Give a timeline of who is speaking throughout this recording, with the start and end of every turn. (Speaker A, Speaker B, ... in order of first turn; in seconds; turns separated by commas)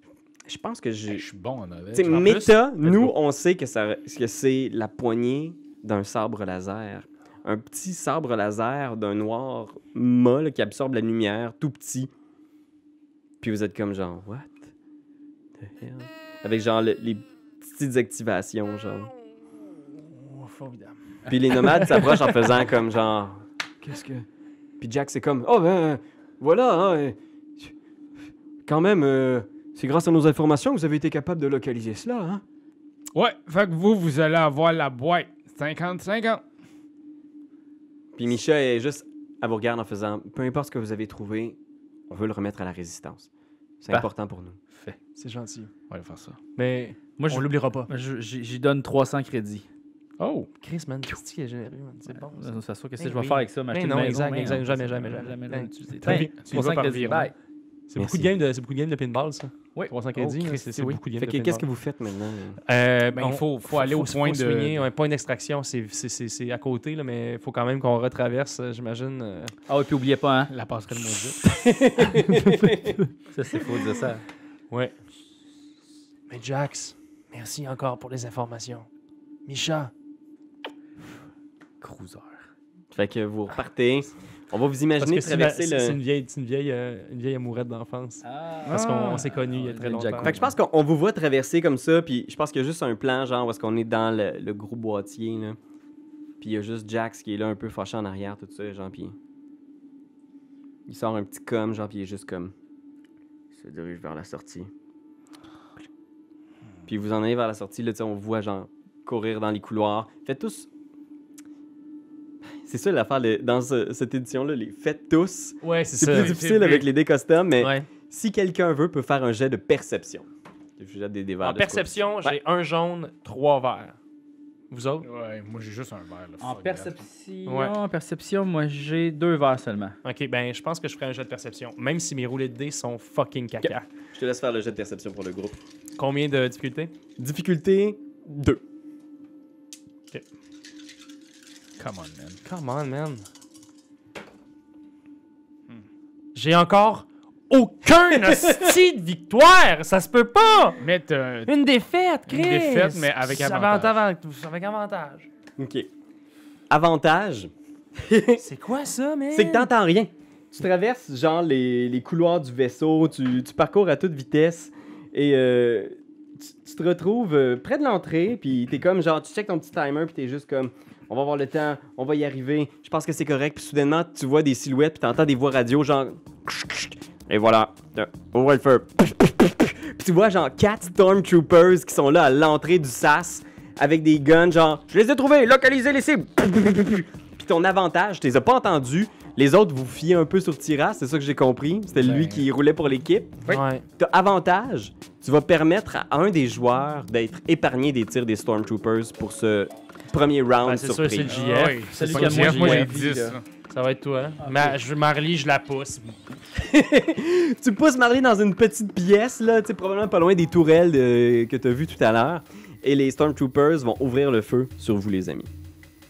Speaker A: 0.5-1.2, Speaker B: 1.1-3.1, Speaker A: 1.9-12.1, Speaker C: 2.0-2.5, Speaker A: 13.4-14.7, Speaker A: 15.6-19.1, Speaker C: 20.0-21.0, Speaker A: 21.3-24.3, Speaker C: 21.6-22.2, Speaker A: 24.8-27.7, Speaker A: 28.7-32.4, Speaker B: 33.1-36.4, Speaker A: 38.1-41.6, Speaker A: 42.1-43.3, Speaker A: 43.8-44.6, Speaker C: 45.2-45.7, Speaker B: 45.9-46.4, Speaker C: 46.6-47.9, Speaker D: 47.2-49.6, Speaker B: 50.2-50.5, Speaker C: 50.6-57.3, Speaker D: 52.1-57.3, Speaker B: 56.1-57.3, Speaker C: 57.9-61.6, Speaker A: 58.0-58.3, Speaker B: 60.2-61.0, Speaker A: 61.2-62.6, Speaker C: 62.7-69.5, Speaker B: 63.1-64.8, Speaker D: 69.7-70.5, Speaker B: 70.5-71.5, Speaker A: 71.5-72.9, Speaker C: 72.1-73.1, Speaker D: 73.3-74.2, Speaker C: 76.3-78.9, Speaker C: 79.5-79.9, Speaker D: 81.8-82.4, Speaker A: 82.9-86.0, Speaker C: 85.0-90.4, Speaker D: 88.2-90.5, Speaker A: 90.2-95.6, Speaker A: 96.4-99.2, Speaker A: 100.9-102.5, Speaker A: 103.5-104.7, Speaker A: 106.9-110.7, Speaker A: 112.7-120.3, Speaker C: 115.6-116.3, Speaker B: 116.1-116.9, Speaker C: 117.6-117.9, Speaker A: 120.8-122.4, Speaker C: 121.4-124.0, Speaker C: 124.7-125.1, Speaker B: 125.0-126.9, Speaker D: 126.4-130.0, Speaker C: 127.5-127.7, Speaker C: 130.0-133.8, Speaker A: 133.6-135.6, Speaker C: 136.0-136.9, Speaker A: 137.2-138.6, Speaker B: 141.8-142.4, Speaker C: 142.4-143.2, Speaker C: 146.3-150.8, Speaker B: 150.8-151.5, Speaker C: 151.5-155.3, Speaker B: 152.3-154.0, Speaker A: 155.6-155.9, Speaker A: 156.7-158.4, Speaker C: 158.4-159.7, Speaker A: 159.3-201.3, Speaker B: 192.0-192.4, Speaker C: 193.5-193.8, Speaker C: 200.6-202.9, Speaker B: 201.3-203.4, Speaker D: 201.3-203.4, Speaker C: 203.7-206.2, Speaker D: 204.4-204.8, Speaker A: 206.6-215.5